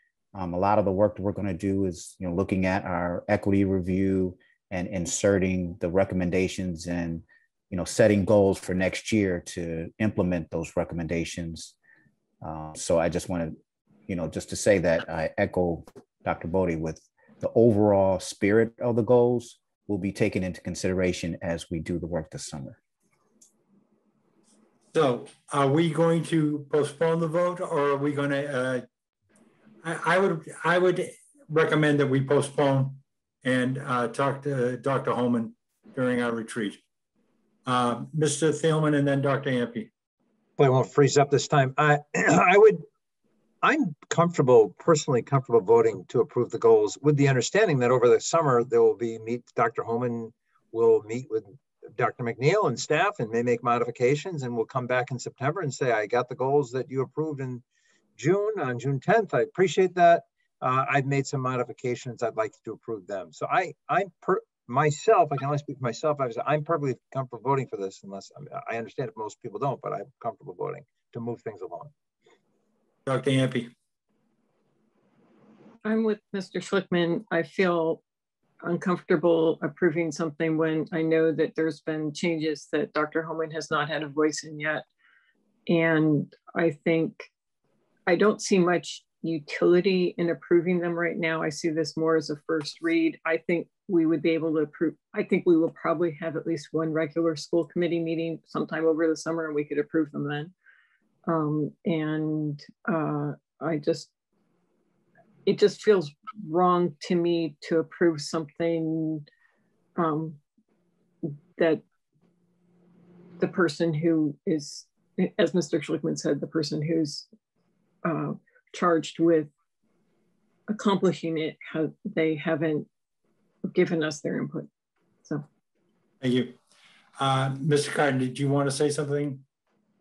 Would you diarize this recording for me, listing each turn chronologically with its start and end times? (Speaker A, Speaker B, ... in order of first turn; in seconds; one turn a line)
Speaker A: 0.3-11.7
Speaker A: 12.4-13.6
Speaker A: 14.1-22.8
Speaker B: 24.9-28.9
Speaker B: 29.8-36.8
Speaker B: 37.7-39.9
Speaker C: 40.6-42.9
Speaker C: 43.6-57.6
Speaker C: 58.2-71.9
Speaker B: 73.1-73.7
Speaker D: 75.8-78.0
Speaker D: 78.6-84.8
Speaker D: 85.7-87.3
Speaker D: 88.1-100.5
Speaker D: 101.2-104.1
Speaker D: 105.5-109.3
Speaker D: 110.0-110.4
Speaker D: 111.6-111.8
Speaker D: 113.4-117.3
Speaker D: 118.0-119.5
Speaker D: 120.7-122.9
Speaker D: 123.7-124.7
Speaker B: 126.2-126.6
Speaker B: 127.2-129.4